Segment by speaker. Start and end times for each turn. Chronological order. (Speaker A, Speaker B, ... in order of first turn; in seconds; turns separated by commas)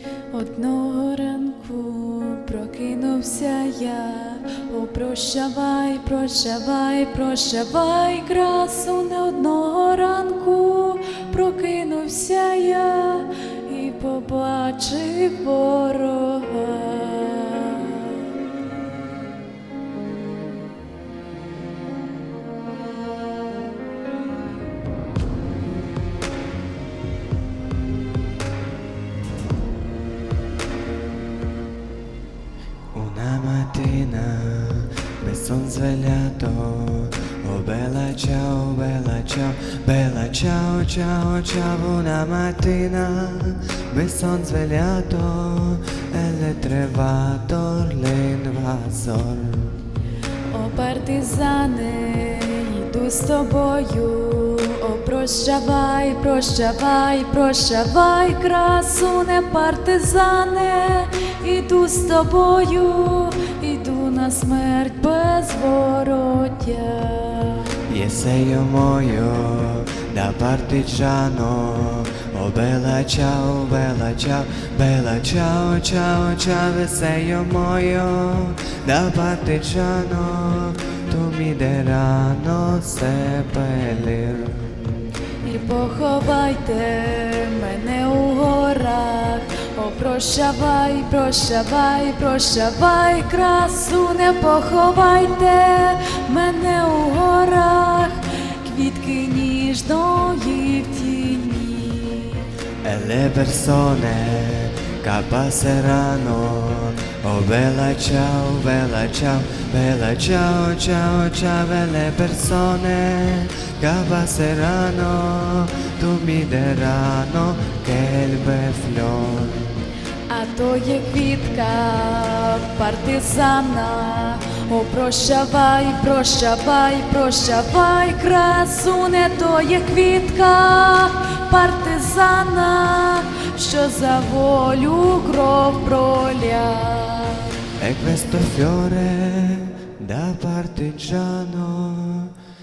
Speaker A: 0.3-18.3, Speaker B: 32.9-49.8, Speaker A: 50.5-67.7, Speaker B: 67.9-84.8, Speaker A: 85.4-102.5, Speaker B: 102.8-119.8, Speaker A: 120.3-137.5, Speaker B: 137.8-142.4